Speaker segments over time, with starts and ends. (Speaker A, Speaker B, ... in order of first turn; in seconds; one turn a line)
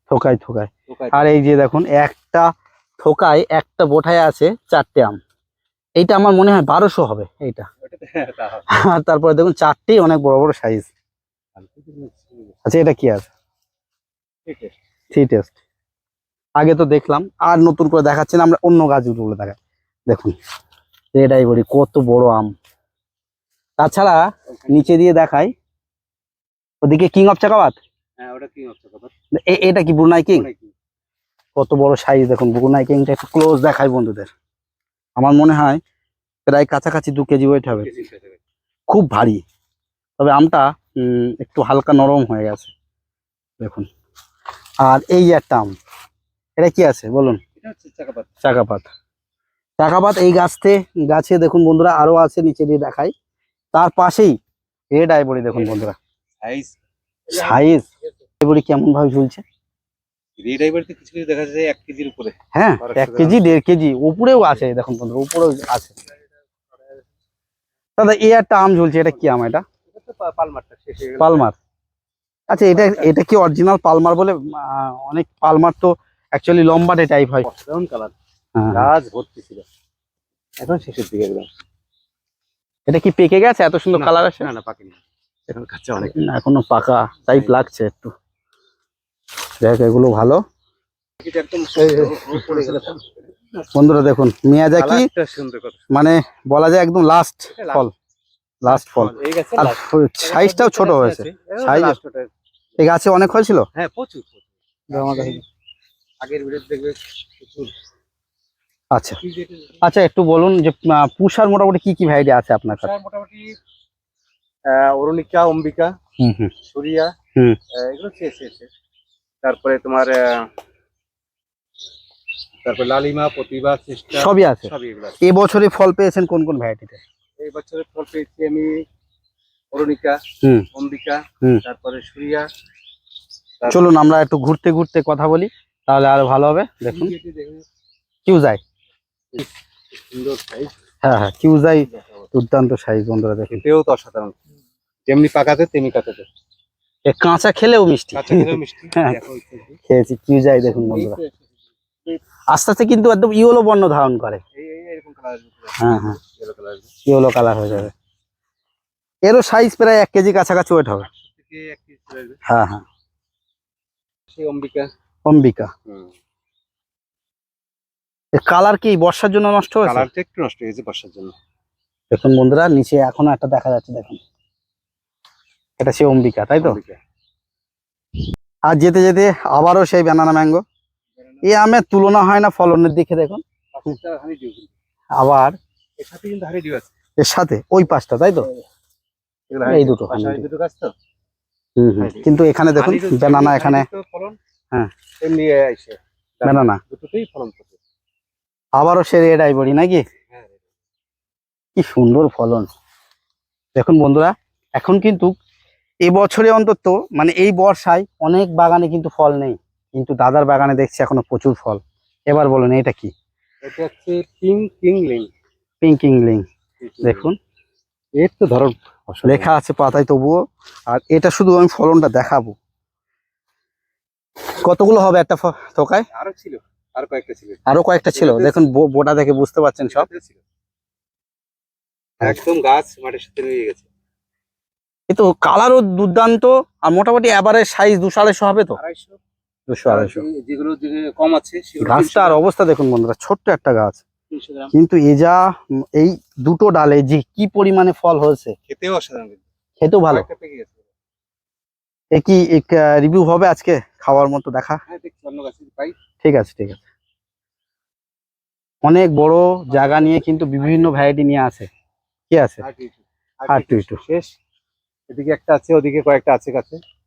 Speaker A: 0.1-5.2
Speaker B: 0.9-1.3
Speaker A: 6.0-7.7
Speaker B: 7.8-8.7
Speaker A: 8.7-10.9
Speaker B: 11.6-12.6
Speaker A: 12.7-13.3
Speaker B: 14.5-14.8
Speaker A: 15.1-15.6
Speaker A: 16.6-19.6
Speaker A: 20.1-20.4
Speaker A: 21.1-22.5
Speaker A: 23.8-25.5
Speaker B: 24.5-24.9
Speaker A: 26.8-27.8
Speaker B: 28.2-29.1
Speaker A: 29.3-30.5
Speaker B: 30.3-30.7
Speaker A: 31.6-34.3
Speaker A: 35.2-35.8
Speaker A: 36.5-37.9
Speaker B: 37.8-38.4
Speaker A: 38.9-39.4
Speaker A: 40.2-42.7
Speaker A: 43.6-43.9
Speaker A: 44.8-45.8
Speaker A: 46.6-47.4
Speaker B: 47.6-48.3
Speaker A: 48.4-48.9
Speaker A: 49.8-53.1
Speaker A: 53.7-54.4
Speaker A: 54.9-56.0
Speaker B: 55.5-55.8
Speaker B: 56.4-56.8
Speaker B: 57.3-58.1
Speaker A: 57.3-57.9
Speaker A: 58.4-59.4
Speaker B: 60.4-63.6
Speaker A: 62.5-65.9
Speaker A: 68.0-69.7
Speaker B: 69.9-71.5
Speaker A: 71.2-71.6
Speaker A: 72.5-77.5
Speaker B: 72.5-73.1
Speaker B: 77.4-78.1
Speaker A: 78.6-78.9
Speaker B: 78.7-79.7
Speaker B: 80.6-81.5
Speaker A: 82.9-84.5
Speaker B: 83.9-86.2
Speaker A: 86.0-88.1
Speaker B: 87.3-87.6
Speaker A: 89.6-90.4
Speaker B: 91.2-93.7
Speaker A: 93.7-95.1
Speaker B: 94.8-95.8
Speaker A: 95.9-97.9
Speaker B: 97.5-97.9
Speaker A: 98.6-102.0
Speaker B: 98.7-102.3
Speaker A: 102.8-103.7
Speaker B: 103.8-105.4
Speaker A: 104.9-105.4
Speaker B: 106.2-107.7
Speaker A: 108.9-109.2
Speaker B: 109.2-109.8
Speaker A: 109.8-112.9
Speaker B: 112.7-113.6
Speaker B: 114.7-116.0
Speaker A: 116.2-116.5
Speaker B: 116.7-117.1
Speaker B: 117.7-118.7
Speaker B: 119.4-120.5
Speaker B: 122.6-125.2
Speaker A: 124.2-127.0
Speaker B: 127.4-128.9
Speaker B: 129.7-130.2
Speaker B: 130.7-132.5
Speaker B: 133.6-133.9
Speaker A: 133.7-137.1
Speaker B: 136.9-137.7
Speaker A: 138.3-138.6
Speaker B: 139.3-140.8
Speaker A: 141.0-143.6
Speaker B: 143.5-144.4
Speaker B: 145.1-146.3
Speaker A: 147.1-149.2
Speaker B: 148.2-149.8
Speaker A: 149.9-151.2
Speaker B: 150.6-151.5
Speaker A: 152.5-154.4
Speaker B: 154.6-156.9
Speaker A: 155.8-156.2
Speaker A: 157.1-157.9
Speaker A: 159.3-161.1
Speaker B: 161.0-162.4
Speaker A: 162.5-162.8
Speaker B: 164.3-164.9
Speaker A: 165.3-165.7
Speaker B: 165.9-166.1
Speaker A: 168.3-170.1
Speaker B: 169.8-171.4
Speaker A: 172.1-174.2
Speaker A: 175.8-176.8
Speaker B: 176.6-177.0
Speaker A: 178.7-180.6
Speaker B: 181.2-181.6
Speaker A: 181.4-183.4
Speaker B: 183.7-184.7
Speaker A: 185.2-185.6
Speaker B: 186.0-186.9
Speaker A: 187.2-188.5
Speaker B: 189.5-190.9
Speaker A: 189.7-190.4
Speaker A: 191.8-193.9
Speaker B: 192.0-194.4
Speaker B: 195.2-197.8
Speaker A: 196.4-196.8
Speaker A: 198.8-200.1
Speaker B: 200.3-200.6
Speaker A: 201.8-202.7
Speaker A: 203.8-205.3
Speaker A: 206.1-213.1
Speaker B: 213.6-215.3
Speaker A: 215.8-216.4
Speaker B: 216.8-217.3
Speaker A: 217.0-217.4
Speaker B: 218.2-219.5
Speaker A: 219.2-222.6
Speaker A: 224.6-226.1
Speaker B: 226.1-228.6
Speaker A: 227.7-230.1
Speaker B: 229.9-230.4
Speaker B: 232.2-233.8
Speaker A: 235.1-238.8
Speaker B: 238.7-239.2
Speaker A: 239.7-240.2
Speaker B: 239.9-242.5
Speaker A: 241.8-244.0
Speaker B: 244.3-244.7
Speaker A: 244.7-248.6
Speaker B: 248.7-249.4
Speaker A: 249.8-250.3
Speaker B: 250.1-250.8
Speaker A: 252.1-254.8
Speaker B: 254.9-256.0
Speaker A: 256.2-256.9
Speaker A: 258.8-261.7
Speaker B: 259.7-261.0
Speaker A: 262.3-262.6
Speaker B: 262.6-264.3
Speaker A: 263.5-264.0
Speaker B: 265.1-266.8